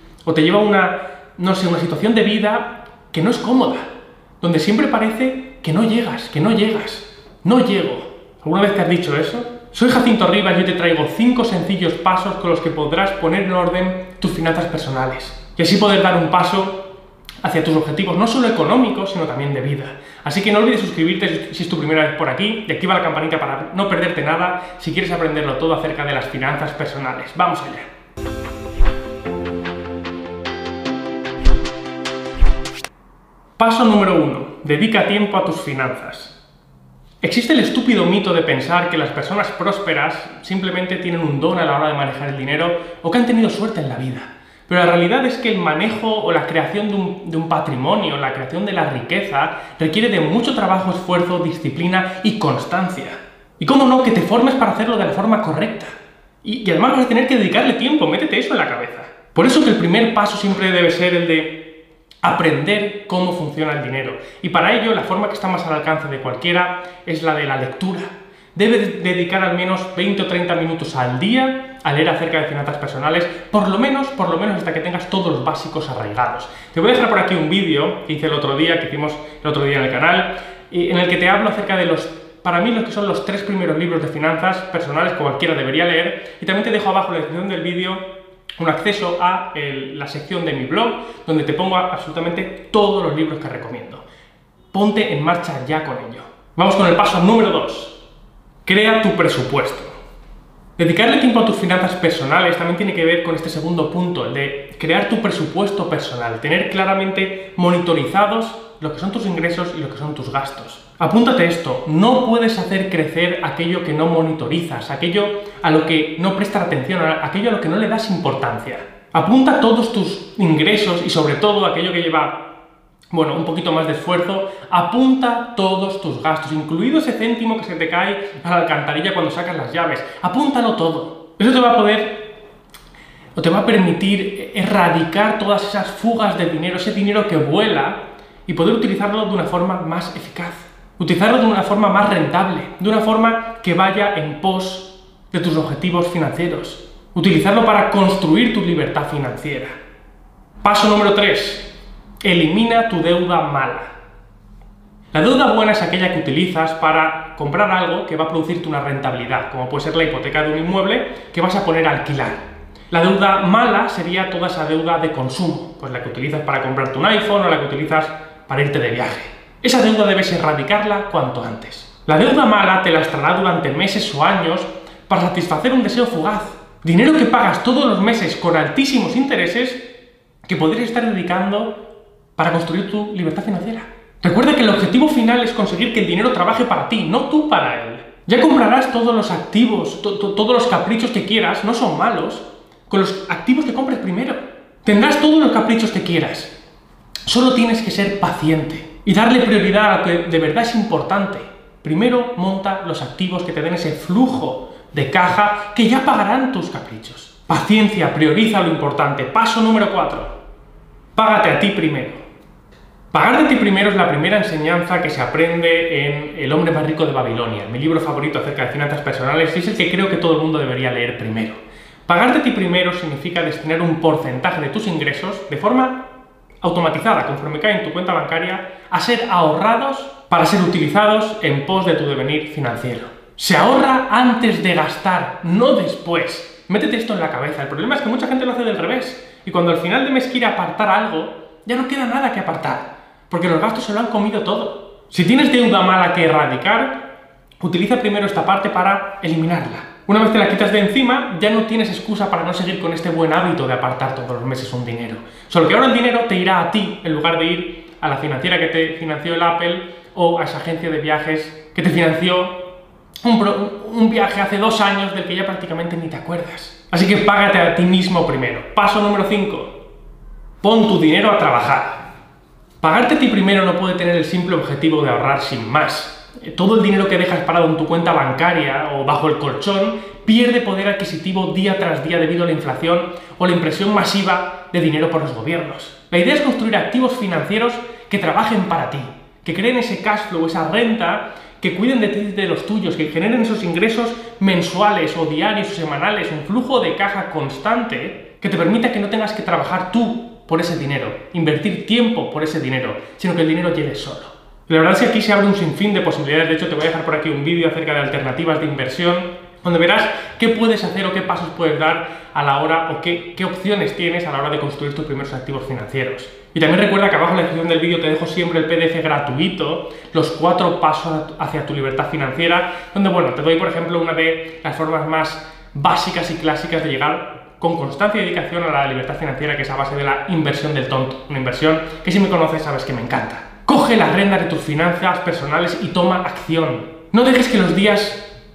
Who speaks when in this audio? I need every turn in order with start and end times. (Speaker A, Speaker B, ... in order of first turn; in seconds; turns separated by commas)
Speaker A: 0.2-16.8, Speaker A: 17.4-27.9, Speaker A: 33.6-36.4, Speaker A: 37.2-61.6, Speaker A: 62.2-88.0, Speaker A: 88.6-94.0, Speaker A: 94.7-98.0, Speaker A: 98.6-99.9, Speaker A: 100.8-122.3, Speaker A: 123.1-132.3, Speaker A: 133.3-149.8, Speaker A: 150.6-151.7, Speaker A: 152.2-153.9, Speaker A: 155.1-179.8, Speaker A: 180.4-181.7, Speaker A: 182.4-196.5, Speaker A: 197.2-210.3, Speaker A: 211.1-212.2, Speaker A: 213.1-226.0, Speaker A: 226.6-247.0, Speaker A: 247.6-262.6, Speaker A: 263.2-269.8, Speaker A: 270.6-272.0, Speaker A: 272.8-338.3